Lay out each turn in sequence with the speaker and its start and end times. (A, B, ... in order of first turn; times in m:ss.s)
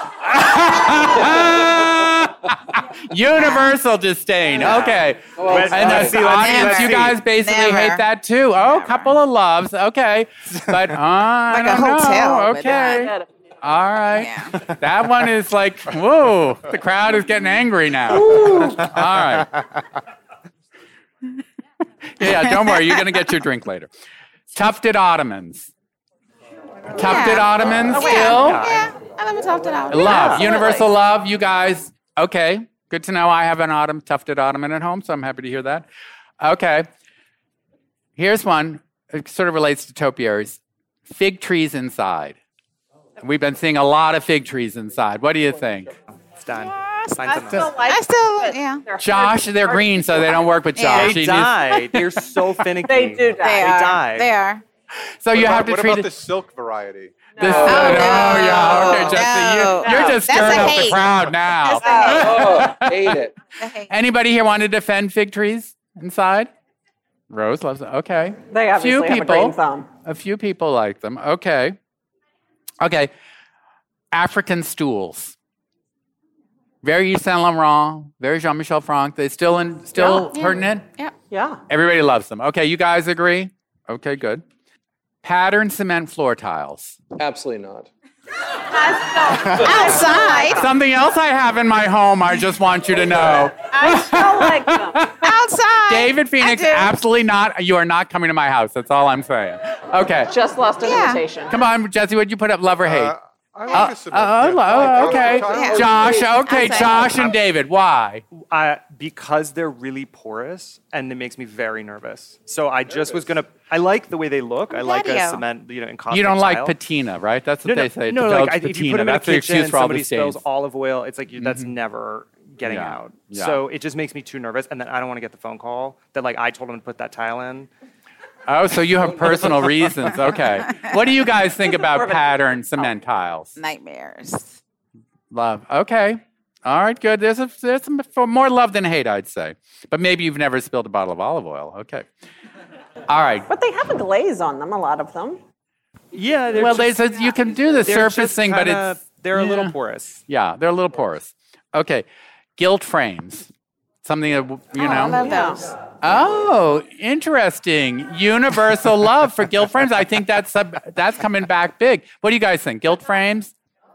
0:00.2-0:19.6 A
0:01.0-0:02.0 B
0:03.3-0:03.8 C
0:04.6-0:07.2 D
0:05.3-0:06.4 B
0:06.2-0:09.2 C
0:11.5-0:13.1 C
0:13.0-0:13.2 E
0:14.1-0:14.6 C
0:18.1-0:18.9 E
0:22.2-0:23.9 A
0:22.2-0:23.2 C
0:24.5-0:25.7 A
0:26.9-0:28.7 A
0:26.9-0:30.9 C
0:27.9-0:28.5 E
0:28.1-0:28.9 D
0:29.9-0:35.8 A
0:30.0-0:30.6 E
0:36.4-0:36.9 A
0:38.2-0:42.4 A
0:43.2-0:45.9 A
0:46.4-0:47.8 D
0:46.5-0:48.8 C
0:47.2-0:50.4 E
0:49.0-0:52.0 A
0:50.7-0:51.2 C
0:50.9-0:54.3 D
0:52.8-0:53.8 E
0:53.4-0:54.6 C
0:55.2-0:56.1 A
0:55.3-0:57.3 F
0:57.4-0:59.2 E
0:57.4-1:03.2 A
0:57.4-0:58.0 B
0:57.6-1:02.4 C
0:59.8-1:00.7 E
1:01.8-1:02.4 E
1:02.0-1:03.3 B
1:03.6-1:03.9 C
1:03.9-1:06.5 A
1:07.3-1:11.8 A
1:08.5-1:09.9 E
1:12.8-1:13.1 A
1:14.1-1:15.4 A
1:16.8-1:20.9 A
1:19.9-1:21.1 C
1:21.3-1:21.6 E
1:21.7-1:24.4 A
1:25.2-1:27.0 A
1:27.2-1:27.9 B
1:28.7-1:30.7 E
1:29.5-1:30.7 C
1:30.5-1:35.2 A
1:33.7-1:35.4 E
1:35.2-1:36.9 C
1:35.9-1:40.3 A
1:40.3-1:41.6 E
1:40.8-1:41.2 C
1:41.5-1:43.1 A
1:42.8-1:46.4 F
1:43.7-1:43.9 C
1:43.7-1:48.2 A
1:45.0-1:47.4 C
1:48.5-1:56.8 D
1:54.7-1:55.4 C
1:56.1-2:00.4 A
1:57.6-2:07.7 D
2:01.4-2:01.7 A
2:02.6-2:03.6 A
2:08.5-2:13.6 A
2:11.7-2:12.8 E
2:13.6-2:14.6 C
2:15.3-2:22.1 A
2:23.1-2:23.5 A
2:23.5-2:25.4 E
2:26.1-2:30.2 D
2:26.6-2:29.7 A
2:30.3-2:32.0 A
2:32.6-2:33.5 A
2:34.0-2:35.2 A
2:34.7-2:35.7 C
2:35.2-2:35.7 E
2:36.0-2:43.5 A